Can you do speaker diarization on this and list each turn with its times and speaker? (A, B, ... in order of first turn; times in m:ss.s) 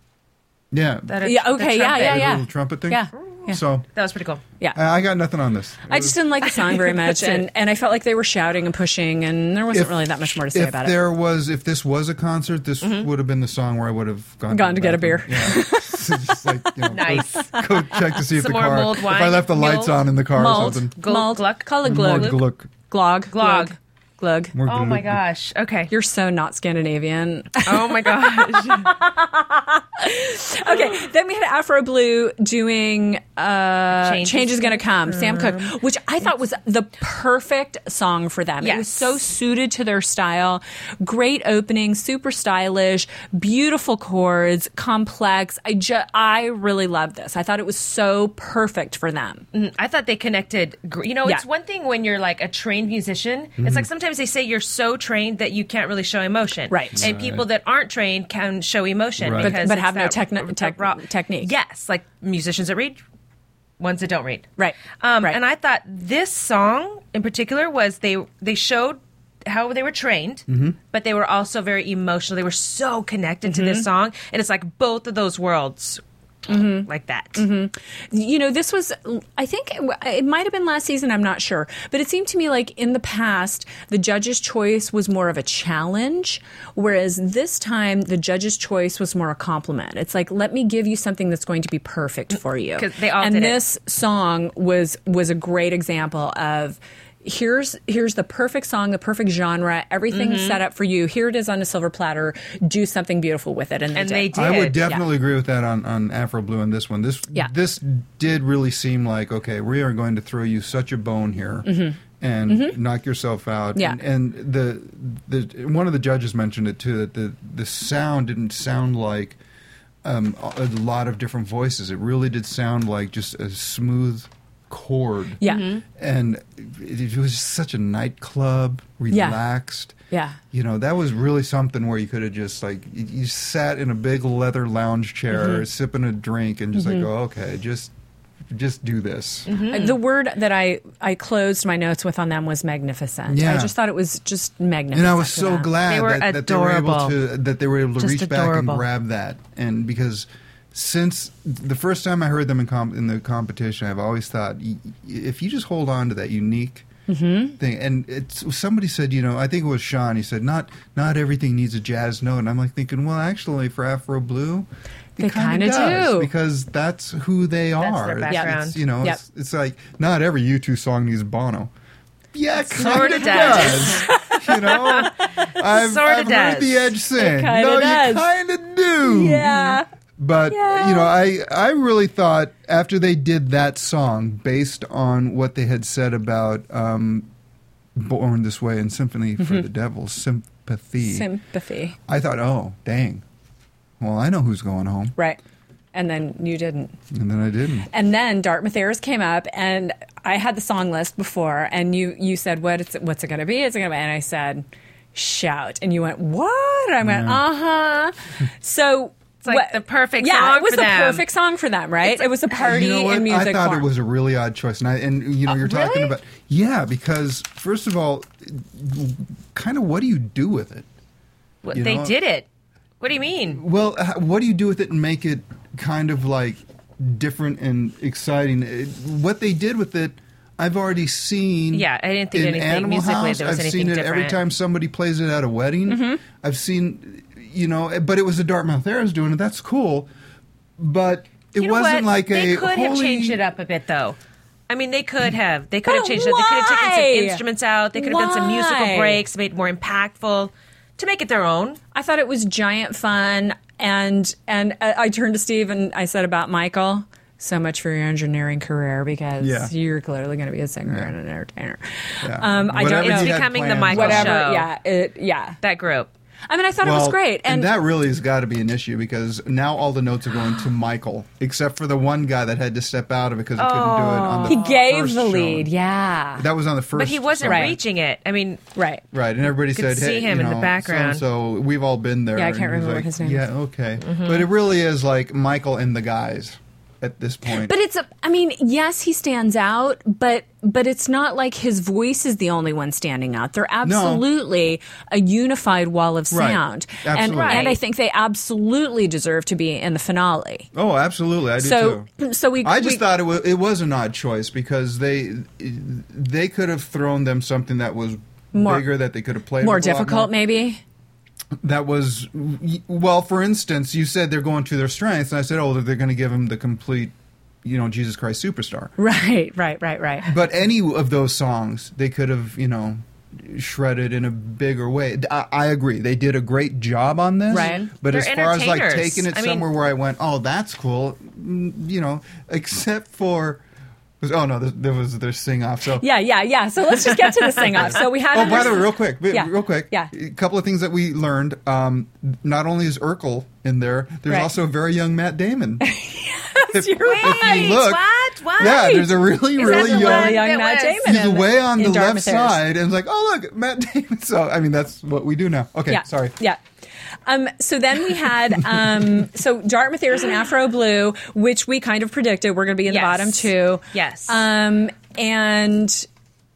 0:00.7-0:01.2 A
0:01.1-0:02.3 B
0:01.2-0:03.6 C
0:02.0-0:03.9 A
0:04.0-0:04.4 B
0:04.7-0:06.2 A
0:05.9-0:11.0 C
0:06.6-0:07.4 B
0:09.7-0:20.9 A
0:12.8-0:13.1 B
0:14.5-0:16.7 C
0:16.9-0:17.5 B
0:18.3-0:20.1 B
0:20.4-0:24.5 C
0:21.0-0:22.4 B
0:21.8-0:22.7 A
0:23.3-0:23.8 B
0:24.5-0:25.2 A
0:24.6-0:25.9 B
0:25.9-0:49.4 C
0:27.6-0:28.9 B
0:34.0-0:35.8 B
0:38.6-0:39.1 B
0:49.5-1:03.0 B
0:53.6-0:53.9 A
0:56.7-0:57.1 C
0:57.0-0:57.5 A
0:59.2-0:59.6 A
0:59.4-1:01.5 C
1:03.8-1:04.5 B
1:04.6-1:05.4 C
1:05.0-1:16.0 B
1:10.5-1:10.8 A
1:13.5-1:13.9 C
1:16.5-1:44.3 C
1:16.5-1:17.4 B
1:32.8-1:33.6 B
1:40.1-1:40.6 B
1:44.0-1:44.9 B
1:44.3-1:59.4 A
1:51.6-1:52.8 C
2:00.0-2:05.4 A
2:05.4-2:05.8 C
2:05.4-2:05.8 B
2:05.9-2:10.0 A
2:09.1-2:09.4 C
2:10.1-2:10.4 C
2:10.5-2:17.9 A
2:15.3-2:15.6 C
2:16.8-2:17.1 C
2:18.5-2:19.6 A
2:19.5-2:20.0 B
2:19.7-2:25.7 C
2:23.3-2:23.7 A
2:24.9-2:36.9 A
2:25.9-2:27.2 B
2:28.0-2:28.9 B
2:37.1-2:37.6 C
2:37.6-2:51.7 A
2:45.2-2:46.3 C
2:47.8-2:48.8 B
2:48.3-2:49.2 C
2:52.3-3:07.3 A
2:52.7-2:55.2 C
2:52.8-2:54.0 B
2:54.7-2:56.9 B
2:57.2-2:58.3 C
2:59.0-2:59.9 C
3:00.5-3:01.1 C
3:08.0-3:11.3 A
3:11.0-3:12.0 C
3:12.1-3:13.2 A
3:14.0-3:15.2 A
3:15.9-3:17.0 C
3:17.1-3:17.9 A
3:17.9-3:33.9 C
3:27.0-3:27.4 A
3:29.4-3:31.2 B
3:32.5-3:40.9 A
3:35.5-3:36.1 C
3:41.6-3:42.5 B
3:41.7-3:42.2 A
3:43.0-3:43.6 B
3:43.6-4:00.1 A
3:51.7-3:54.4 B
3:55.9-3:56.2 C
4:00.8-4:03.4 A
4:01.6-4:04.2 B
4:04.7-4:11.8 B
4:05.9-4:07.4 C
4:07.9-4:09.2 C
4:11.9-4:25.6 C
4:19.4-4:19.7 A
4:20.9-4:21.1 A
4:22.2-4:24.4 A
4:22.8-4:24.7 B
4:25.6-4:26.1 B
4:26.5-4:27.7 C
4:26.8-4:35.7 A
4:33.6-4:34.8 B
4:34.5-4:36.5 C
4:36.4-4:37.8 A
4:37.0-4:38.6 B
4:37.5-4:37.8 C
4:38.8-4:39.0 C
4:39.1-4:47.7 A
4:39.8-4:41.2 B
4:42.4-4:43.4 C
4:44.0-4:44.5 B
4:47.5-5:00.7 C
4:53.8-4:54.2 A
4:56.3-4:57.7 A
4:57.3-4:57.8 B
5:00.7-5:02.1 A
5:01.6-5:03.0 C
5:02.6-5:10.4 A
5:08.5-5:08.9 C
5:09.6-5:10.8 C
5:11.6-5:18.9 A
5:19.0-5:20.4 C
5:20.2-5:33.6 A
5:27.5-5:27.9 C
5:27.6-5:29.7 B
5:34.2-5:36.1 A
5:36.0-5:40.1 C
5:37.7-5:45.8 A
5:45.8-5:47.8 C
5:46.7-5:48.0 A
5:47.0-5:49.0 B
5:48.6-5:50.4 A
5:48.6-5:52.6 C
5:49.6-5:51.0 B
5:51.0-5:56.4 A
5:55.9-5:56.6 C
5:57.3-6:06.1 C
6:02.9-6:04.4 B